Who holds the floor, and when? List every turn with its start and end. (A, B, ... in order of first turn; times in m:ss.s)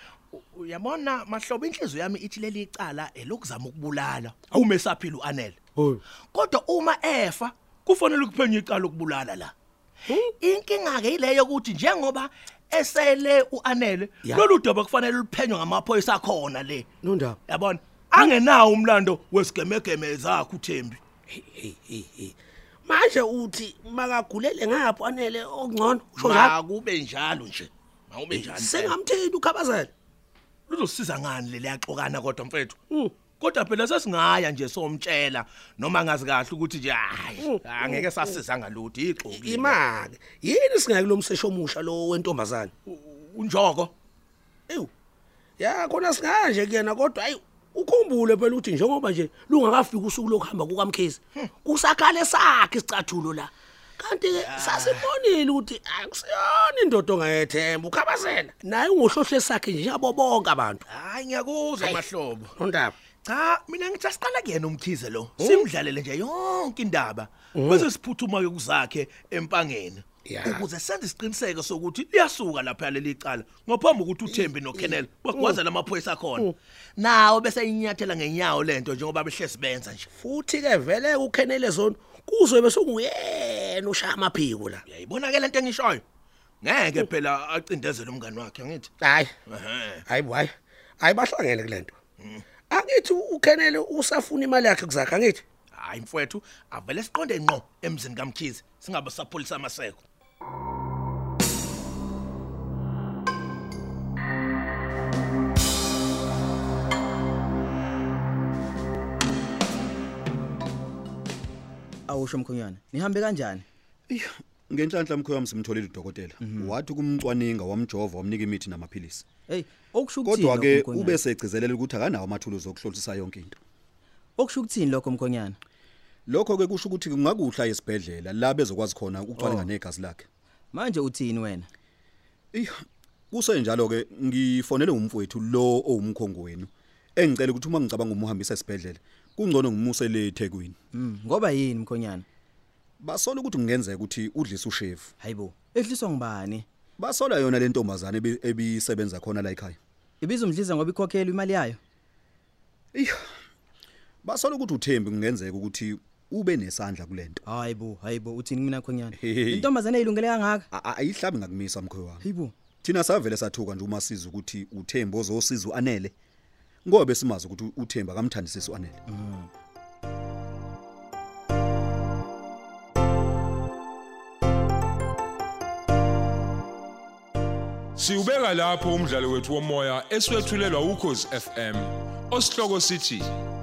0:00.3-0:05.6 A
0:06.3-0:09.5 A
0:10.1-0:16.9 A
0:17.0-0:17.4 B
0:17.5-0:21.0 A
0:21.3-0:22.3 B
0:22.8-0:26.5 B
0:26.2-0:29.0 A
0:28.3-0:29.9 B
0:30.7-0:39.8 A
0:37.4-0:38.1 B
0:39.3-0:42.7 B
0:42.9-0:43.9 A
0:45.6-1:00.8 B
0:54.3-0:55.1 A
1:00.9-1:02.5 A
1:02.6-1:02.9 B
1:03.2-1:20.1 A
1:07.5-1:07.8 B
1:10.2-1:10.6 B
1:14.3-1:15.5 B
1:20.2-1:24.8 B
1:24.9-1:26.0 A
1:26.6-1:28.9 A
1:29.0-1:29.3 B
1:29.5-1:30.0 A
1:30.1-1:32.0 B
1:32.7-1:35.4 B
1:35.7-1:40.0 A
1:52.1-1:53.6 C
1:54.1-1:59.2 D
1:56.4-1:56.7 C
1:59.5-2:01.2 C
2:00.2-2:03.6 D
2:04.4-2:05.6 C
2:06.3-2:10.2 D
2:09.4-2:09.7 C
2:10.7-2:11.7 C
2:12.5-2:20.8 D
2:20.9-2:22.2 C
2:23.0-2:25.1 D
2:25.2-2:26.6 C
2:27.0-2:29.8 D
2:30.2-2:31.8 C
2:32.9-2:33.2 D
2:34.2-2:37.4 D
2:37.4-2:40.6 C
2:39.1-2:39.7 D
2:40.7-2:42.2 D
2:42.2-2:42.5 C
2:42.8-2:46.1 D
2:46.8-2:49.0 D
2:49.1-2:49.5 C
2:58.0-3:03.3 E